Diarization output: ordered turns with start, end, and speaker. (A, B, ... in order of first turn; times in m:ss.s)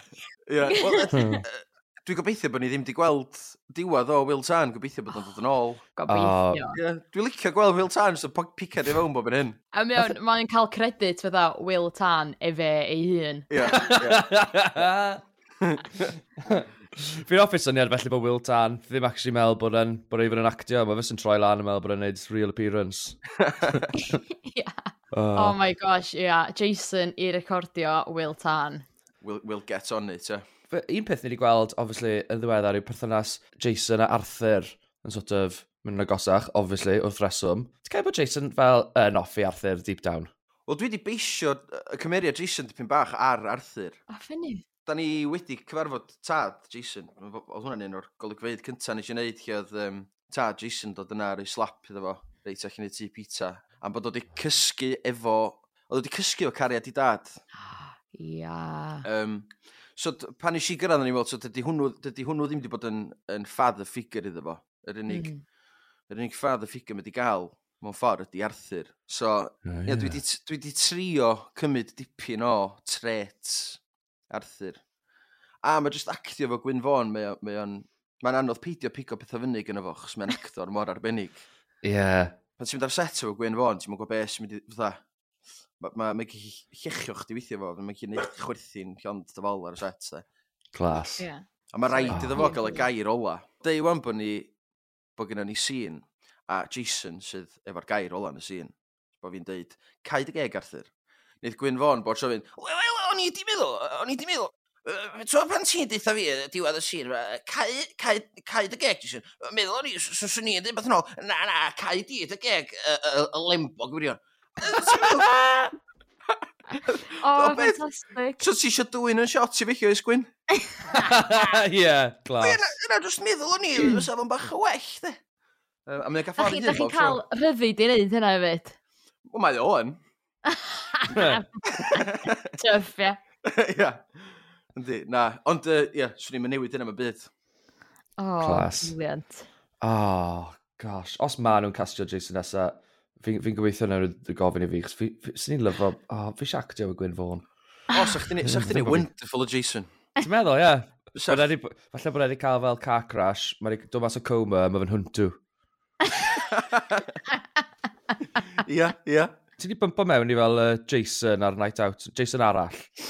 0:00.4-0:05.8 A
0:00.7-0:01.4 B
0:01.1-0:01.4 C
0:06.0-0:06.8 B
0:06.1-0:06.6 C
0:06.7-0:09.6 A
0:09.7-0:13.5 B
0:13.5-0:14.2 A
0:13.7-0:15.2 C
0:15.6-0:16.1 A
0:16.5-0:23.2 C
0:23.4-0:23.9 A
0:24.4-0:28.8 B
0:25.1-0:25.6 C
0:29.2-0:30.4 A
0:30.7-0:40.3 C
0:40.7-0:44.0 A
0:44.1-0:44.6 B
0:44.8-0:57.4 A
0:57.7-0:59.0 B
0:59.0-1:05.3 A
1:05.1-1:05.4 B
1:06.1-1:14.8 A
1:09.6-1:10.2 C
1:15.6-1:21.4 A
1:21.8-1:22.3 C
1:22.6-1:25.0 A
1:25.8-1:30.2 A
1:30.7-1:31.2 C
1:31.2-1:32.8 B
1:31.7-1:34.5 A
1:32.1-1:32.4 C
1:35.2-1:55.4 A
1:54.6-1:55.6 C
1:56.3-1:57.8 A
1:57.2-1:58.4 B
1:58.4-2:00.3 A
2:01.0-2:02.7 C
2:02.4-2:05.2 A
2:05.8-2:07.2 A
2:06.4-2:08.8 B
2:09.2-2:10.0 A
2:10.5-2:13.2 B
2:11.8-2:12.4 A
2:13.4-2:14.1 A
2:14.7-2:17.3 A
2:18.2-2:19.5 B
2:18.4-2:18.9 C
2:19.8-2:27.4 C
2:27.9-2:29.9 A
2:28.4-2:29.1 C
2:30.2-2:35.4 C
2:31.1-2:31.4 A
2:36.5-2:37.0 A
2:38.6-2:39.3 A
2:39.6-2:42.9 C